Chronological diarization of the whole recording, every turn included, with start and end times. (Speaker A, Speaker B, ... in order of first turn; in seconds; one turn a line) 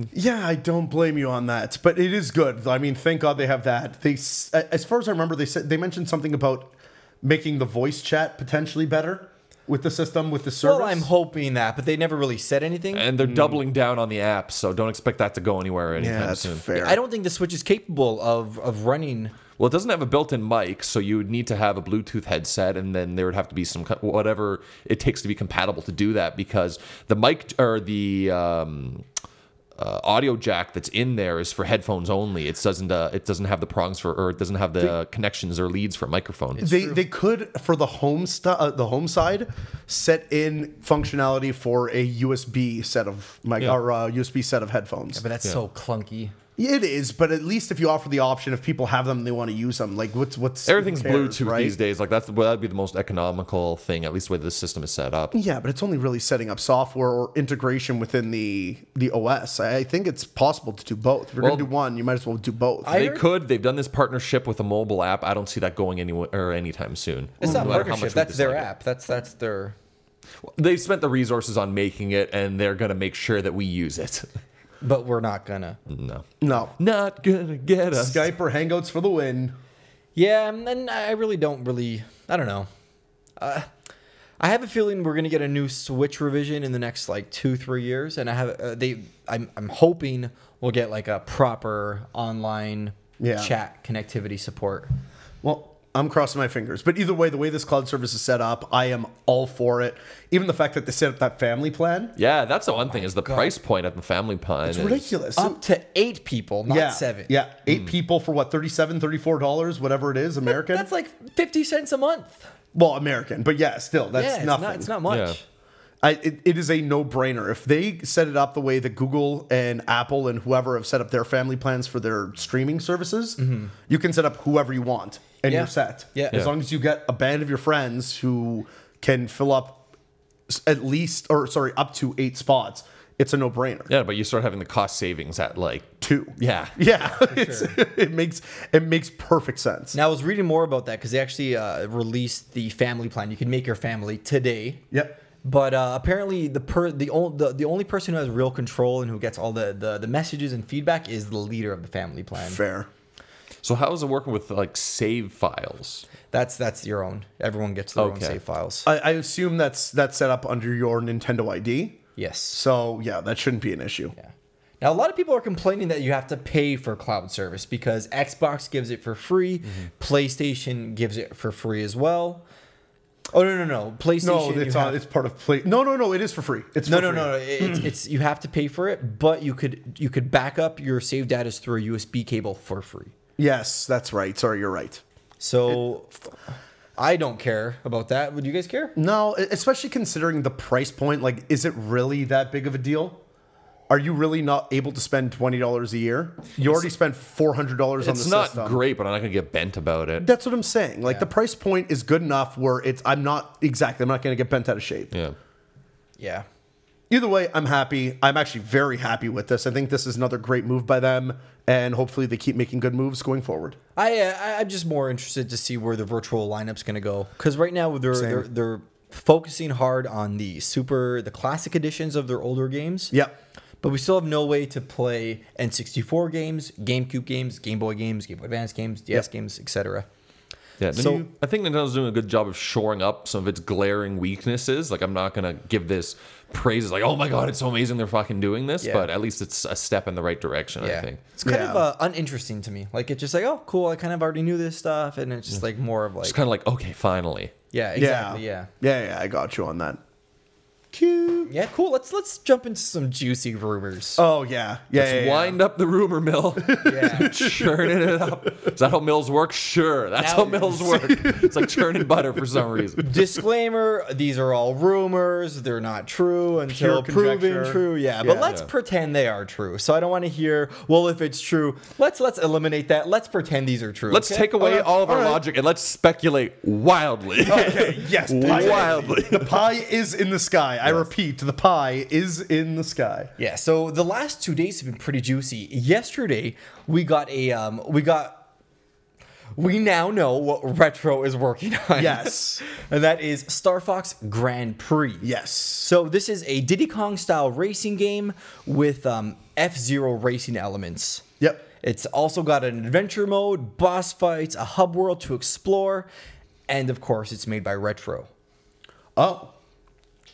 Speaker A: 0.1-11.1
Speaker B: 10.6-13.1
Speaker C: 12.9-16.6
Speaker A: 13.2-13.6
Speaker A: 15.9-17.0
Speaker B: 16.7-19.3
Speaker C: 19.6-29.0
Speaker C: 29.8-36.6
Speaker B: 36.6-37.0
Speaker A: 36.6-45.2
Speaker B: 45.1-46.4
Speaker A: 46.6-51.7
Speaker C: 50.6-55.3
Speaker A: 55.3-63.0
Speaker C: 61.4-61.7
Speaker B: 62.8-63.2
Speaker C: 62.9-68.7
Speaker B: 67.4-69.7
Speaker A: 67.4-67.9
Speaker C: 70.4-74.3
Speaker B: 74.8-75.8
Speaker C: 75.9-78.3
Speaker A: 76.4-76.7
Speaker A: 77.9-79.5
Speaker B: 80.1-82.7
Speaker B: 83.4-83.7
Speaker B: 84.4-94.9
Speaker A: 93.2-93.5
Speaker A: 95.4-102.2
Speaker C: 102.2-105.1
Speaker B: 102.7-103.6
Speaker A: 104.6-105.6
Speaker B: 105.3-107.3
Speaker A: 106.7-110.9
Speaker B: 110.5-112.5
Speaker A: 112.7-114.9
Speaker B: 114.1-115.4
Speaker C: 115.1-115.4
Speaker A: 116.0-129.8
Speaker B: 123.4-123.7
Speaker B: 125.5-126.4
Speaker A: 130.5-133.9
Speaker C: 133.9-136.8
Speaker A: 136.0-139.9
Speaker B: 137.0-137.8
Speaker B: 139.9-144.8
Speaker A: 144.9-145.2
Speaker B: 145.4-152.6
Speaker A: 152.4-152.9
Speaker C: 153.6-156.0
Speaker B: 156.3-158.9
Speaker C: 158.0-158.4
Speaker A: 158.8-162.0
Speaker B: 162.2-162.6
Speaker A: 162.5-164.1
Speaker B: 164.2-172.4
Speaker B: 173.3-175.0
Speaker A: 174.2-177.9
Speaker B: 176.8-183.1
Speaker A: 183.4-185.0
Speaker B: 185.4-186.2
Speaker B: 187.0-188.9
Speaker A: 188.9-193.2
Speaker A: 193.9-198.8
Speaker C: 198.0-200.3
Speaker A: 200.2-205.1
Speaker B: 206.2-206.4
Speaker A: 207.1-213.8
Speaker B: 213.9-223.1
Speaker A: 218.1-218.5
Speaker B: 223.8-230.1
Speaker C: 230.8-241.2
Speaker B: 230.9-231.2
Speaker B: 238.8-239.1
Speaker B: 240.8-246.4
Speaker A: 241.4-241.8
Speaker C: 246.2-247.5
Speaker B: 247.7-248.7
Speaker A: 247.9-250.0
Speaker A: 250.9-251.5
Speaker B: 251.5-254.2
Speaker A: 254.2-255.6
Speaker C: 254.9-263.1
Speaker A: 256.6-258.7
Speaker B: 256.8-257.4
Speaker B: 260.2-261.0
Speaker A: 260.8-263.2
Speaker B: 263.0-274.7
Speaker A: 266.7-268.5
Speaker C: 274.1-279.5
Speaker A: 274.6-275.4
Speaker A: 277.4-283.3
Speaker B: 278.4-279.1
Speaker B: 283.4-288.4
Speaker B: 289.6-295.3
Speaker A: 291.9-292.6
Speaker A: 295.2-295.9
Speaker B: 295.8-301.2
Speaker B: 301.8-306.1
Speaker B: 306.7-308.3
Speaker A: 309.1-309.5